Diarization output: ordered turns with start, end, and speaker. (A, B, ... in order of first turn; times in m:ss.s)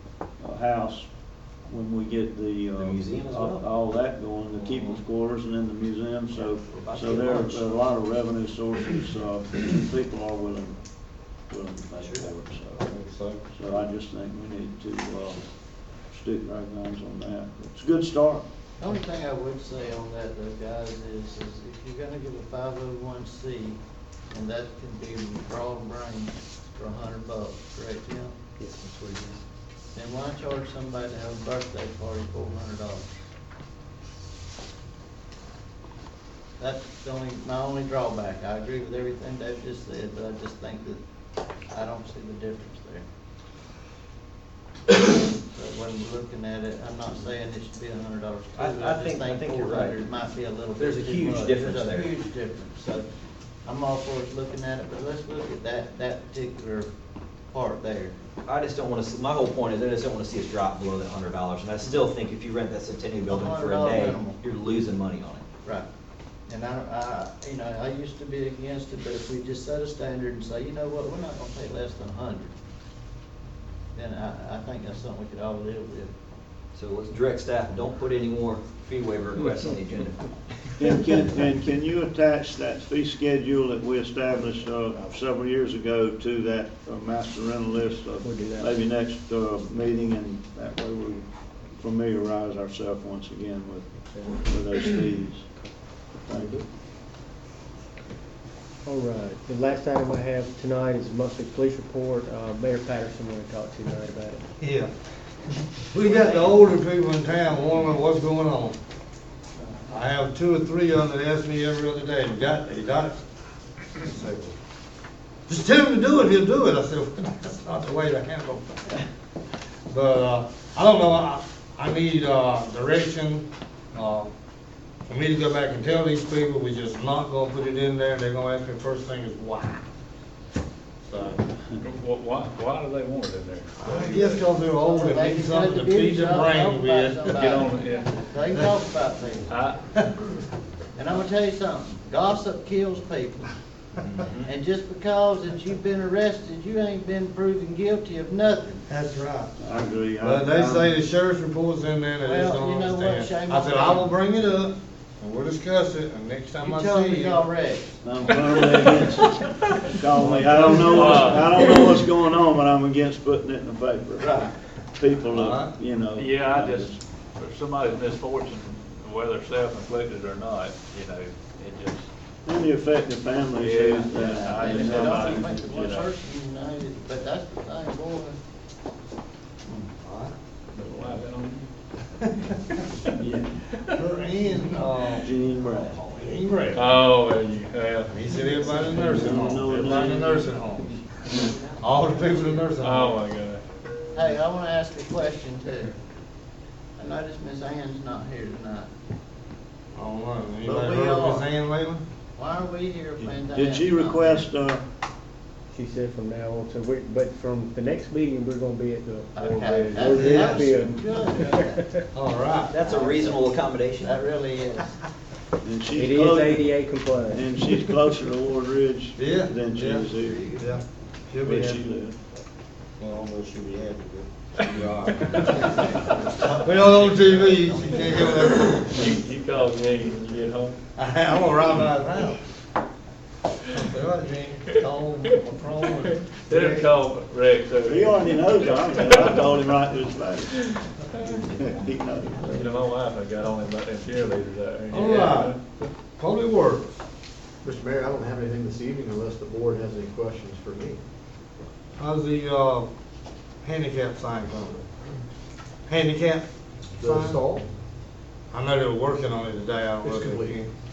0:00.4-0:12.9 A
0:02.8-0:03.6 B
0:04.6-0:05.0 B
0:06.3-0:07.7 B
0:12.0-0:12.2 B
0:12.8-0:13.4 C
0:13.5-0:18.4 A
0:18.8-0:23.8 D
0:24.3-0:28.3 D
0:28.8-0:29.4 B
0:29.9-0:33.1 D
0:36.6-0:41.0 D
0:41.7-0:43.0 D
0:45.3-0:53.0 D
0:48.5-0:50.0 B
0:50.8-0:52.1 B
0:53.6-0:56.9 D
0:57.5-0:58.1 D
0:58.4-1:05.4 B
1:03.3-1:04.4 D
1:06.5-1:12.5 D
1:13.9-1:16.1 D
1:16.7-1:20.3 B
1:20.8-1:36.6 A
1:28.2-1:28.8 E
1:36.3-1:36.6 E
1:38.8-1:44.4 E
1:44.6-1:44.9 C
1:45.9-1:48.8 C
1:49.9-1:53.2 C
1:54.0-1:54.5 C
1:55.5-1:59.0 C
1:59.9-2:04.3 C
2:05.1-2:09.9 C
2:11.0-2:11.4 C
2:11.8-2:14.3 F
2:13.8-2:17.4 C
2:14.7-2:19.5 D
2:17.3-2:18.2 F
2:18.5-2:18.8 C
2:19.5-2:20.0 F
2:20.9-2:23.5 D
2:24.0-2:24.5 B
2:24.4-2:28.8 D
2:28.9-2:29.6 C
2:29.6-2:30.9 A
2:30.2-2:37.4 C
2:32.2-2:34.1 D
2:36.6-2:38.0 D
2:38.0-2:44.4 A
2:40.3-2:41.2 C
2:40.4-2:41.5 F
2:44.2-2:44.5 C
2:44.9-2:47.0 A
2:45.3-2:45.7 C
2:46.1-2:52.1 F
2:52.4-2:56.0 A
2:53.5-2:56.1 F
2:54.4-2:58.4 D
3:00.0-3:00.3 C
3:00.8-3:01.7 F
3:03.2-3:03.6 A
3:03.9-3:05.3 C
3:05.1-3:06.0 A
3:06.1-3:07.0 C
3:06.7-3:08.1 F
3:08.1-3:11.0 C
3:08.8-3:10.5 A
3:11.6-3:12.6 B
3:11.8-3:13.2 C
3:12.8-3:13.6 F
3:14.1-3:16.0 D
3:17.0-3:18.9 D
3:19.9-3:22.0 C
3:20.6-3:21.5 D
3:22.4-3:24.4 D
3:23.2-3:24.8 A
3:25.7-3:32.0 E
3:29.3-3:31.8 D
3:30.1-3:30.6 C
3:32.1-3:32.7 C
3:32.7-3:34.2 B
3:32.8-3:34.9 D
3:35.6-3:36.7 A
3:35.9-3:38.0 E
3:37.3-3:40.5 A
3:39.2-3:41.8 C
3:40.2-3:40.6 B
3:41.4-3:42.2 A
3:43.0-3:49.1 C
3:46.1-3:46.5 D
3:46.9-3:48.2 B
3:48.9-3:50.7 F
3:51.0-3:52.4 C
3:53.7-3:56.9 C
3:56.5-3:59.4 F
3:57.9-4:00.8 A
4:01.4-4:02.7 A
4:02.5-4:05.9 F
4:04.9-4:05.6 C
4:06.1-4:07.0 C
4:07.6-4:11.0 G
4:12.0-4:12.9 C
4:13.6-4:14.8 C
4:15.9-4:17.4 C
4:17.0-4:17.6 G
4:18.5-4:20.7 C
4:20.0-4:20.6 G